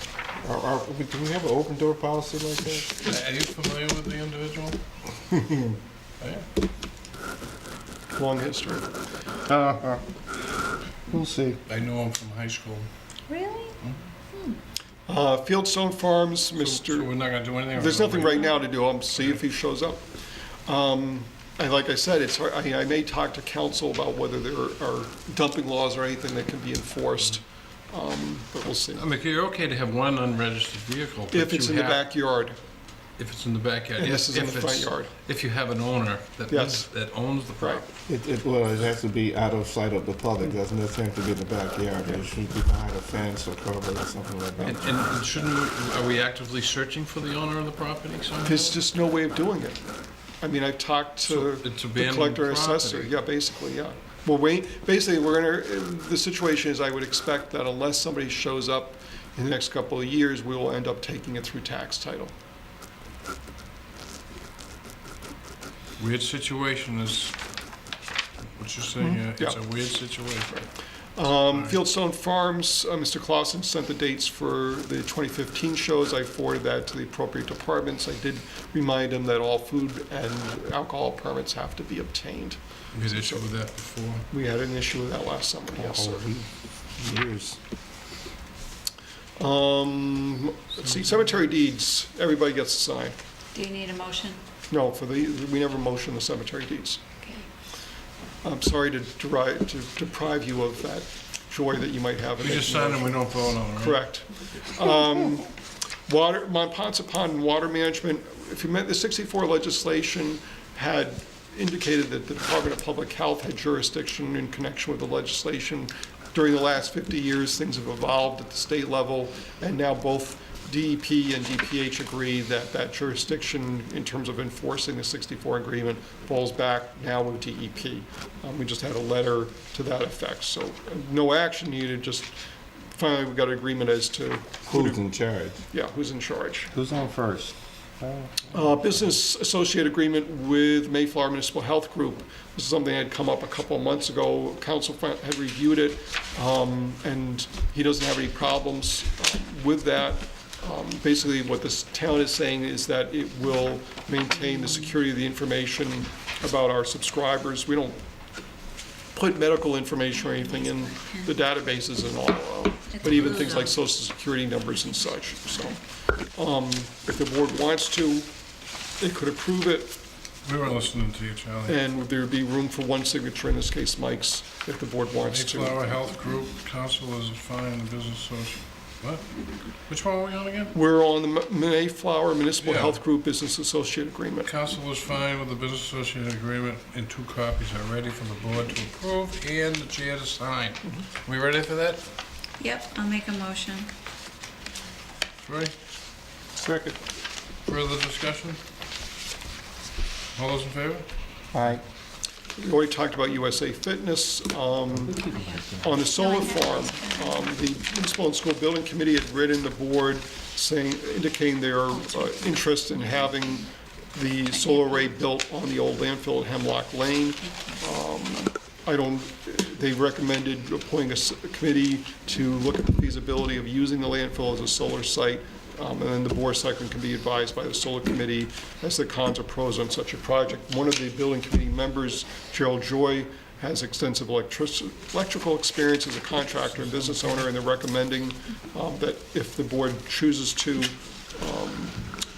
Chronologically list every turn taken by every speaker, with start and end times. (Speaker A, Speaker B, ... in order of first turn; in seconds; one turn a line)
Speaker A: 0.4-3.0
Speaker B: 3.0-4.8
Speaker B: 6.2-6.5
Speaker C: 8.2-8.9
Speaker A: 9.5-10.0
Speaker A: 11.1-11.6
Speaker B: 11.7-12.9
Speaker D: 13.3-13.7
Speaker C: 15.1-17.1
Speaker B: 16.5-19.4
Speaker C: 17.8-20.0
Speaker C: 20.7-29.1
Speaker B: 28.9-32.1
Speaker C: 31.3-32.6
Speaker B: 33.2-37.9
Speaker C: 34.0-35.1
Speaker C: 36.5-36.9
Speaker C: 37.6-37.8
Speaker A: 38.1-45.0
Speaker B: 44.6-48.8
Speaker C: 48.4-49.8
Speaker C: 50.4-62.3
Speaker B: 51.2-53.1
Speaker B: 66.0-67.3
Speaker B: 68.6-70.7
Speaker C: 69.0-69.6
Speaker C: 71.2-83.5
Speaker B: 71.4-71.8
Speaker B: 82.9-84.3
Speaker C: 84.3-86.3
Speaker A: 85.7-87.6
Speaker C: 89.4-93.2
Speaker B: 90.8-91.3
Speaker D: 93.5-94.4
Speaker C: 94.7-97.0
Speaker D: 97.2-97.5
Speaker C: 98.4-105.5
Speaker B: 102.4-104.1
Speaker C: 106.1-132.4
Speaker C: 132.9-135.0
Speaker A: 134.7-135.7
Speaker C: 135.7-136.7
Speaker A: 136.7-138.9
Speaker C: 138.5-158.0
Speaker C: 159.2-165.8
Speaker D: 160.1-161.4
Speaker D: 162.9-163.8
Speaker C: 166.3-168.3
Speaker C: 169.0-170.0
Speaker B: 170.4-171.8
Speaker C: 171.7-175.8
Speaker B: 175.2-179.2
Speaker B: 179.9-180.7
Speaker C: 180.7-184.5
Speaker B: 182.6-183.0
Speaker B: 184.4-192.0
Speaker D: 192.6-193.9
Speaker B: 195.4-195.7
Speaker A: 196.6-197.0
Speaker B: 197.7-198.6
Speaker B: 200.3-201.1
Speaker C: 201.5-201.8
Speaker C: 202.6-205.2
Speaker D: 205.2-207.5
Speaker A: 205.2-205.6
Speaker C: 205.8-242.0
Speaker D: 211.9-213.7
Speaker D: 214.4-215.2
Speaker D: 217.4-217.9
Speaker B: 236.7-237.4